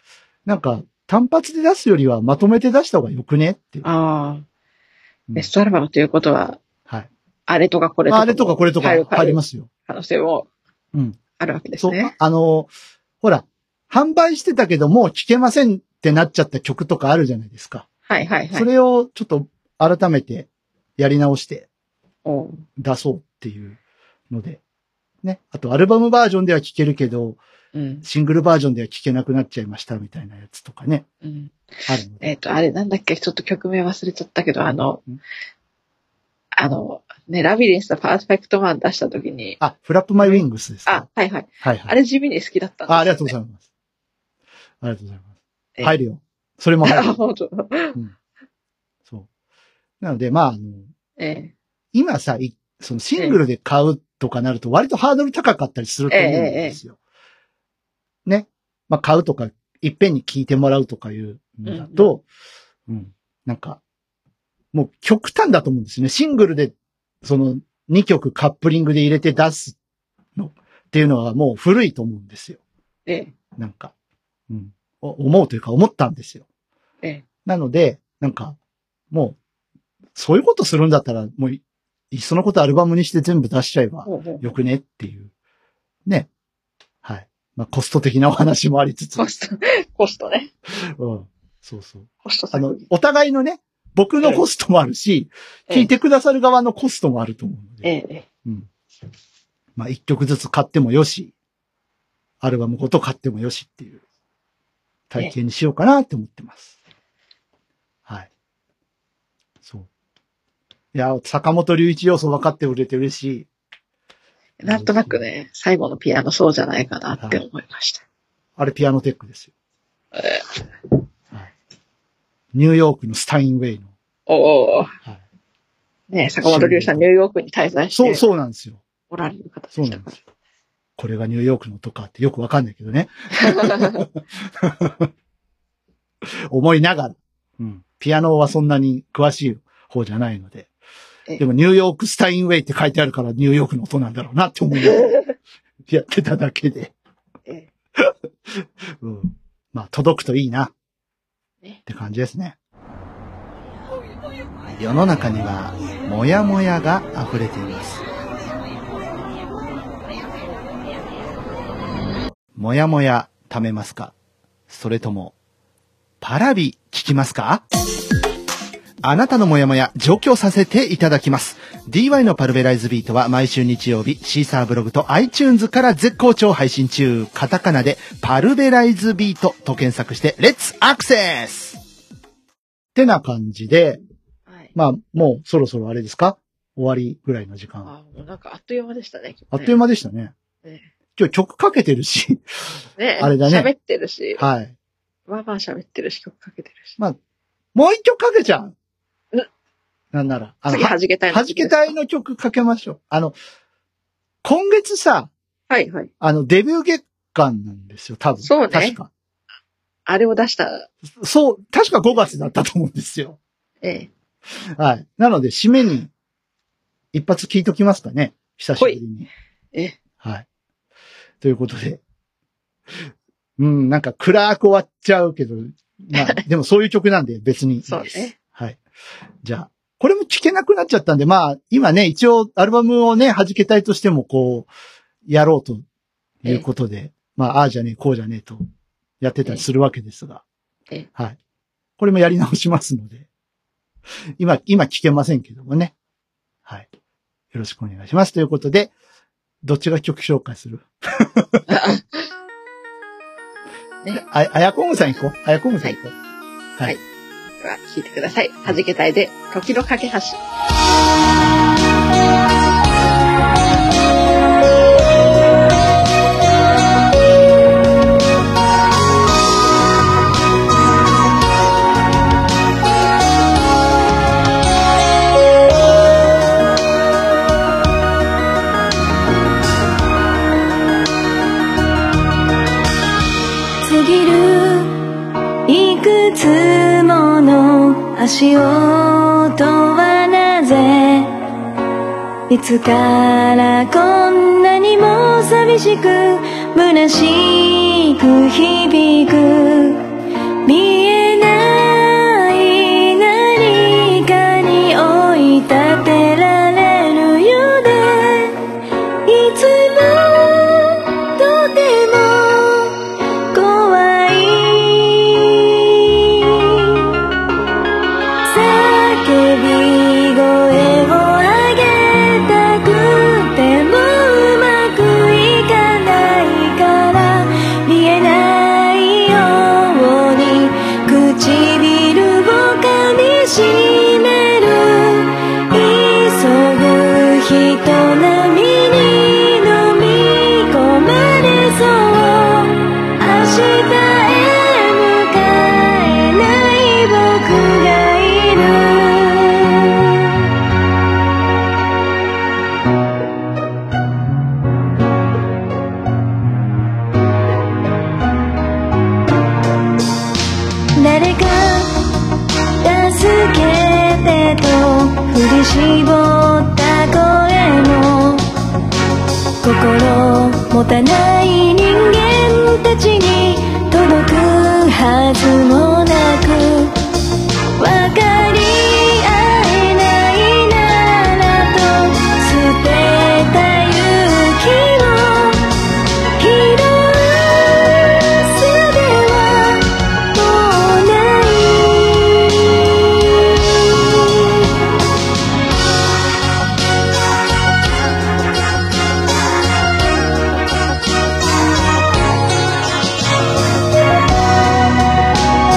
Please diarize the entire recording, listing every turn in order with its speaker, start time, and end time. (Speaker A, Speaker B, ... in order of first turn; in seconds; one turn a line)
Speaker A: 0.5-3.8
Speaker B: 3.8-4.5
Speaker B: 5.3-6.6
Speaker B: 7.5-10.5
Speaker A: 8.1-9.7
Speaker A: 10.9-11.2
Speaker B: 11.4-12.1
Speaker A: 11.8-12.7
Speaker A: 13.2-17.9
Speaker B: 18.1-18.7
Speaker A: 18.5-21.7
Speaker B: 22.2-22.6
Speaker A: 22.8-23.8
Speaker A: 24.3-24.6
Speaker A: 25.2-27.4
Speaker B: 27.7-28.0
Speaker A: 28.0-31.1
Speaker B: 31.2-31.6
Speaker A: 31.9-32.2
Speaker B: 32.2-35.0
Speaker B: 36.5-39.6
Speaker A: 39.6-41.1
Speaker B: 40.2-43.3
Speaker A: 41.6-41.9
Speaker A: 42.9-43.6
Speaker A: 44.8-45.3
Speaker A: 45.8-47.2
Speaker B: 46.8-48.0
Speaker A: 50.0-50.9
Speaker B: 51.2-51.5
Speaker A: 51.9-57.0
Speaker B: 56.1-56.8
Speaker A: 58.2-62.2
Speaker B: 61.6-62.1
Speaker A: 62.9-63.8
Speaker A: 64.7-69.8
Speaker A: 70.3-72.6
Speaker B: 73.0-73.3
Speaker A: 73.5-73.9
Speaker A: 74.5-76.4
Speaker A: 77.5-78.6
Speaker A: 79.1-79.4
Speaker A: 80.1-85.3
Speaker B: 84.0-84.5
Speaker A: 87.0-89.2
Speaker B: 89.2-90.5
Speaker A: 90.8-97.9
Speaker B: 92.2-92.8
Speaker B: 97.8-98.2
Speaker A: 99.8-101.3
Speaker A: 102.4-104.0
Speaker A: 105.1-106.7
Speaker A: 110.9-113.5
Speaker B: 114.6-118.0
Speaker A: 114.6-115.2
Speaker A: 117.2-117.4
Speaker A: 118.6-119.5
Speaker B: 120.1-120.4
Speaker A: 122.5-123.9
Speaker B: 124.3-124.9
Speaker B: 126.1-128.2
Speaker A: 126.4-127.0
Speaker A: 127.9-128.8
Speaker B: 129.1-130.1
Speaker A: 129.8-130.2
Speaker A: 131.0-135.1
Speaker B: 133.4-134.0
Speaker A: 136.5-140.7
Speaker A: 141.4-145.1
Speaker B: 144.8-145.3
Speaker A: 145.9-146.9
Speaker A: 148.0-150.7
Speaker A: 151.8-152.6
Speaker A: 154.7-158.0
Speaker A: 162.6-164.1
Speaker A: 164.7-165.3
Speaker A: 166.2-167.6
Speaker A: 169.0-181.8
Speaker A: 182.9-184.0
Speaker A: 184.7-187.9
Speaker B: 187.8-189.8
Speaker A: 189.5-190.3
Speaker A: 191.2-192.4
Speaker B: 193.0-194.4
Speaker A: 193.2-193.7
Speaker A: 194.4-194.7
Speaker B: 195.3-197.0
Speaker A: 197.7-198.7
Speaker A: 200.1-203.3
Speaker B: 200.7-201.9
Speaker A: 204.4-205.3
Speaker B: 205.7-206.1
Speaker A: 206.2-209.1
Speaker B: 208.4-209.0
Speaker B: 210.1-210.9
Speaker A: 211.1-213.4
Speaker B: 213.8-214.1
Speaker A: 214.6-216.1
Speaker A: 217.1-219.3
Speaker A: 220.2-220.4
Speaker A: 221.4-222.0
Speaker A: 223.6-228.8
Speaker B: 227.9-228.3
Speaker A: 229.4-234.7
Speaker A: 235.3-235.8
Speaker A: 236.4-238.6
Speaker A: 239.2-240.4
Speaker A: 242.0-243.2
Speaker A: 244.4-245.9
Speaker A: 247.5-248.9
Speaker A: 249.6-251.6
Speaker B: 251.7-252.3
Speaker A: 254.1-256.1
Speaker B: 257.6-260.4
Speaker C: 283.8-285.1
Speaker C: 285.6-291.4
Speaker C: 292.5-300.1
Speaker C: 300.6-308.6
Speaker C: 309.2-317.2
Speaker C: 318.5-350.3
Speaker C: 360.9-362.0
Speaker C: 362.8-368.5
Speaker C: 369.6-377.0
Speaker C: 377.8-385.7
Speaker C: 386.4-394.8